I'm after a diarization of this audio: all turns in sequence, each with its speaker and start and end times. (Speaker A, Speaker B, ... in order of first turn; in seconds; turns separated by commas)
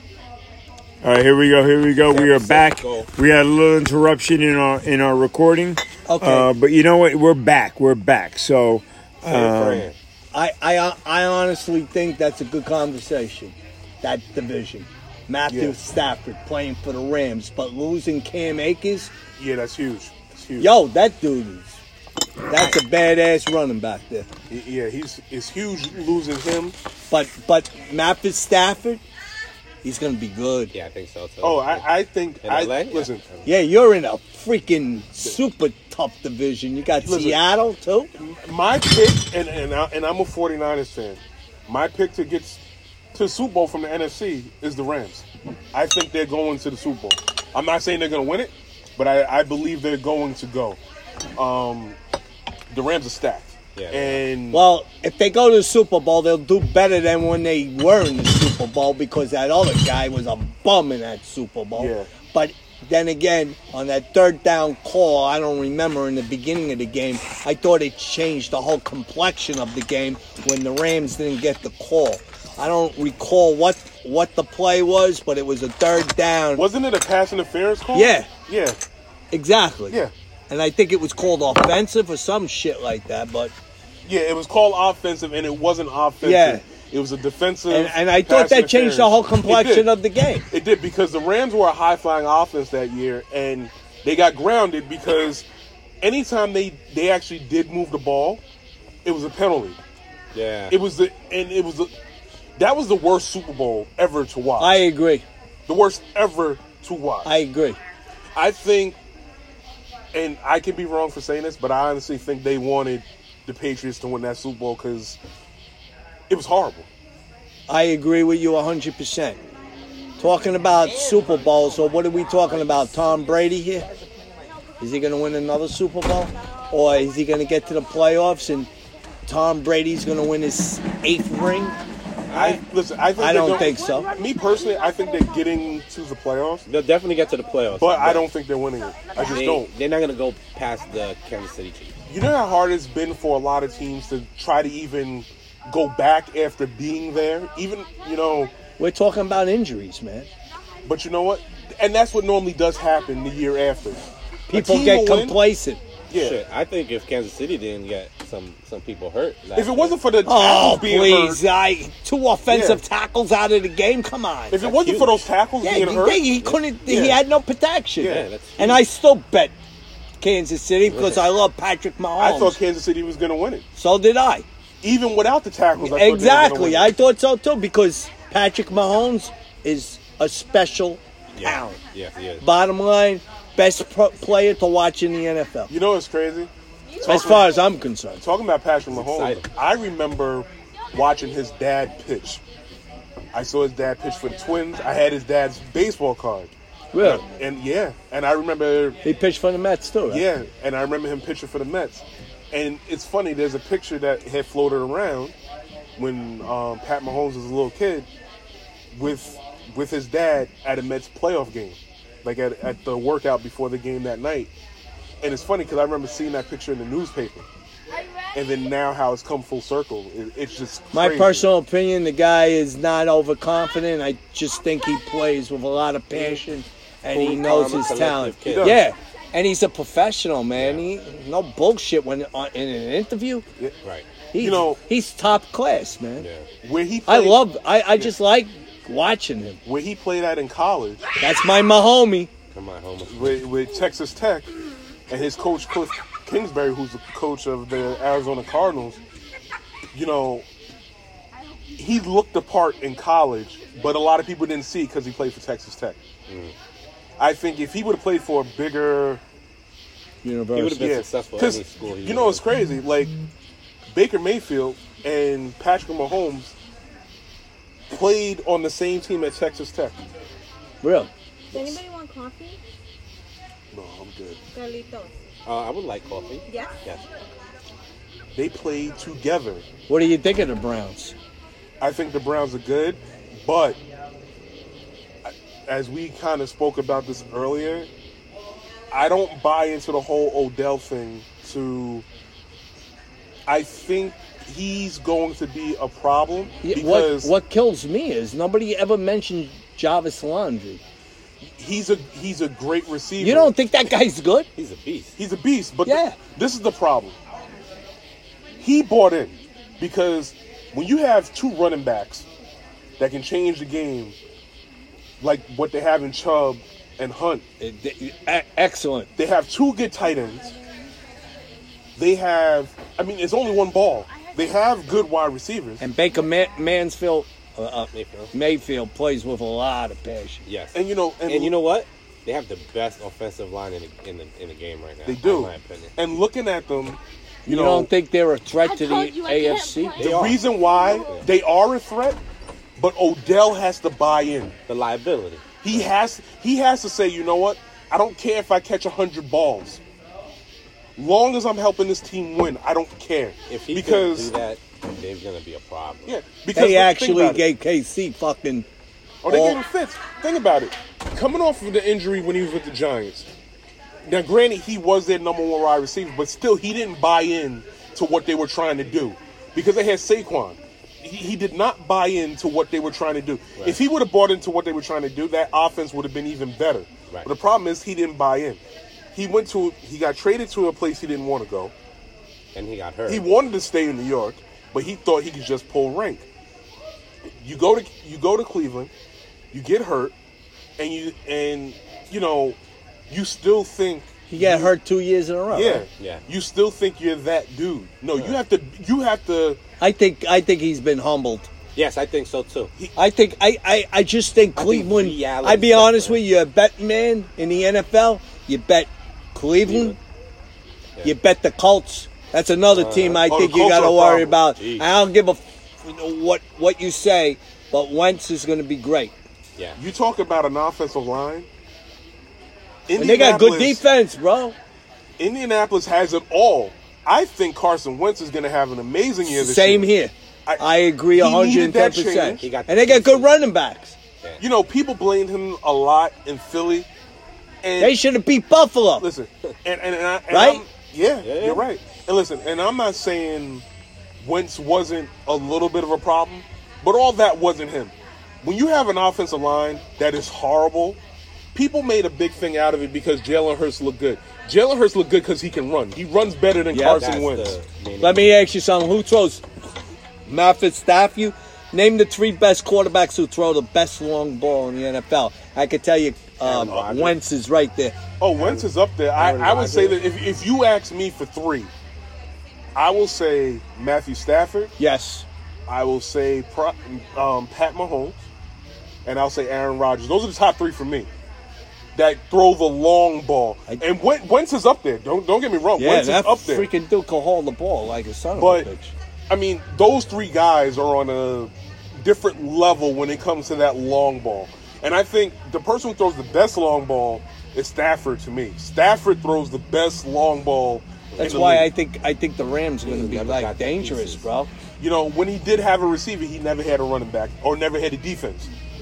Speaker A: 1.0-9.9, Speaker B: 2.0-3.1, Speaker C: 6.1-6.5, Speaker B: 9.2-9.9, Speaker C: 10.3-19.1, Speaker D: 15.5-15.8, Speaker D: 19.4-20.7, Speaker C: 20.6-21.8, Speaker C: 22.5-24.3, Speaker D: 24.5-26.8, Speaker C: 27.1-29.0, Speaker C: 29.8-30.7, Speaker B: 30.7-31.9, Speaker D: 31.4-33.2, Speaker B: 32.4-33.5, Speaker C: 33.4-38.1, Speaker D: 37.0-37.4, Speaker D: 38.1-42.6, Speaker D: 43.1-50.8, Speaker D: 51.4-52.0, Speaker D: 52.7-54.6, Speaker B: 53.7-54.2, Speaker C: 54.5-76.6, Speaker D: 61.7-62.1, Speaker D: 76.5-78.8, Speaker C: 77.9-78.3, Speaker C: 79.3-83.5, Speaker D: 84.0-89.9, Speaker C: 86.2-86.6, Speaker C: 87.7-90.5, Speaker D: 90.5-95.5, Speaker D: 96.0-98.4, Speaker D: 99.0-99.8, Speaker B: 100.3-100.8, Speaker D: 100.7-101.9, Speaker D: 102.6-104.8, Speaker C: 104.6-105.2, Speaker D: 105.7-107.3, Speaker C: 107.2-107.8, Speaker D: 108.3-109.0, Speaker D: 110.1-115.2, Speaker D: 116.3-116.9, Speaker C: 117.7-119.4, Speaker C: 120.2-123.9, Speaker B: 121.0-123.2, Speaker C: 124.8-128.7, Speaker C: 129.2-131.8, Speaker B: 132.3-132.6, Speaker D: 132.3-136.7, Speaker C: 133.2-134.1, Speaker B: 136.7-138.3, Speaker D: 137.7-139.7, Speaker B: 139.2-141.9, Speaker D: 142.1-148.5, Speaker C: 148.8-150.3, Speaker D: 150.8-155.4, Speaker C: 154.5-155.8, Speaker D: 156.1-156.4, Speaker B: 156.2-159.9, Speaker D: 159.5-161.4, Speaker C: 160.2-164.6, Speaker D: 162.5-162.8, Speaker D: 164.5-166.2, Speaker B: 164.6-165.3, Speaker C: 165.6-169.5, Speaker D: 166.8-167.2, Speaker D: 168.0-168.3, Speaker B: 168.0-168.8, Speaker C: 170.2-172.6, Speaker B: 170.8-171.2, Speaker D: 172.2-173.6, Speaker C: 173.7-174.4, Speaker D: 174.8-176.9, Speaker C: 175.8-181.8, Speaker B: 181.3-182.4, Speaker C: 182.4-185.7, Speaker D: 185.7-187.6, Speaker C: 187.0-188.2, Speaker D: 188.2-192.4, Speaker B: 188.9-189.5, Speaker D: 193.3-199.0, Speaker C: 196.9-197.2, Speaker C: 199.0-200.3, Speaker D: 200.1-205.3, Speaker D: 206.0-208.1, Speaker D: 208.9-214.5, Speaker D: 215.2-217.4, Speaker D: 218.3-221.5, Speaker C: 220.9-233.4, Speaker B: 226.1-226.4, Speaker B: 227.1-228.8, Speaker D: 228.4-228.8, Speaker B: 230.5-230.8, Speaker C: 234.3-236.3, Speaker D: 234.4-234.8, Speaker B: 236.2-236.4, Speaker D: 236.6-238.1, Speaker C: 237.1-239.6, Speaker D: 239.6-241.0, Speaker C: 241.2-242.3, Speaker B: 242.5-243.4, Speaker D: 243.0-244.5, Speaker D: 245.1-249.0, Speaker D: 249.9-250.4, Speaker D: 251.8-256.0, Speaker B: 256.3-256.5, Speaker D: 257.2-259.2, Speaker C: 260.2-260.9, Speaker B: 260.5-262.4, Speaker D: 260.8-263.1, Speaker D: 263.9-266.5, Speaker D: 267.9-270.0, Speaker C: 270.8-271.1, Speaker E: 271.5-272.6, Speaker D: 273.7-274.4, Speaker E: 274.5-275.1, Speaker B: 275.4-277.0, Speaker E: 276.5-276.7, Speaker D: 278.3-279.6, Speaker C: 279.9-281.1, Speaker D: 281.8-283.8, Speaker D: 285.2-287.9, Speaker D: 288.9-292.0, Speaker D: 293.5-297.3, Speaker C: 296.6-300.8, Speaker D: 301.6-303.5, Speaker C: 303.2-304.5, Speaker B: 304.6-305.1, Speaker D: 305.1-307.1, Speaker C: 305.9-306.2, Speaker D: 308.6-312.3, Speaker D: 313.0-314.2, Speaker D: 315.2-317.4, Speaker C: 317.6-319.1, Speaker D: 319.2-320.6, Speaker D: 322.0-325.8, Speaker C: 325.8-330.4, Speaker B: 327.9-328.3, Speaker B: 330.4-335.9, Speaker D: 330.7-331.6, Speaker D: 335.0-337.9, Speaker C: 337.4-340.0, Speaker E: 339.0-339.5, Speaker D: 339.9-342.2, Speaker B: 340.0-341.3, Speaker D: 342.8-344.5, Speaker B: 344.7-345.9, Speaker D: 345.6-349.8, Speaker D: 351.0-354.4, Speaker B: 353.5-356.1, Speaker D: 356.0-357.4, Speaker C: 356.5-358.7, Speaker D: 359.2-363.3, Speaker C: 359.3-359.6, Speaker D: 364.1-378.6, Speaker D: 379.1-381.7, Speaker B: 382.5-383.3, Speaker D: 383.1-386.2, Speaker D: 387.4-388.9, Speaker D: 389.5-390.1, Speaker D: 390.8-392.6, Speaker D: 393.1-394.7, Speaker C: 394.3-395.9, Speaker D: 395.5-399.6, Speaker B: 398.1-398.4, Speaker C: 399.8-401.5, Speaker B: 401.7-402.7, Speaker C: 402.9-410.0, Speaker B: 404.5-406.2, Speaker B: 409.6-409.9, Speaker C: 411.0-419.1, Speaker B: 412.7-413.2, Speaker D: 413.3-414.4, Speaker B: 414.6-414.9, Speaker D: 419.8-421.5, Speaker D: 422.9-423.8, Speaker C: 422.9-424.6, Speaker D: 425.2-429.9, Speaker C: 429.2-433.9, Speaker D: 430.4-432.5, Speaker B: 432.4-433.3, Speaker D: 434.4-436.9, Speaker D: 437.6-438.0, Speaker C: 437.8-439.1, Speaker D: 439.0-443.6, Speaker C: 440.3-440.6, Speaker B: 441.2-441.7, Speaker D: 444.2-451.0, Speaker D: 451.5-457.6, Speaker C: 456.7-457.1, Speaker B: 456.9-458.4, Speaker C: 458.0-459.4, Speaker C: 460.3-468.6, Speaker D: 466.4-467.2, Speaker D: 468.2-471.7, Speaker C: 469.1-470.0, Speaker D: 472.7-474.7, Speaker C: 474.8-475.2, Speaker D: 475.7-478.2, Speaker D: 479.1-481.1, Speaker D: 481.9-486.7, Speaker C: 485.8-488.9, Speaker D: 488.3-488.7, Speaker D: 489.3-501.7, Speaker B: 501.1-501.5, Speaker C: 501.2-504.5, Speaker B: 502.8-504.2, Speaker D: 504.8-508.5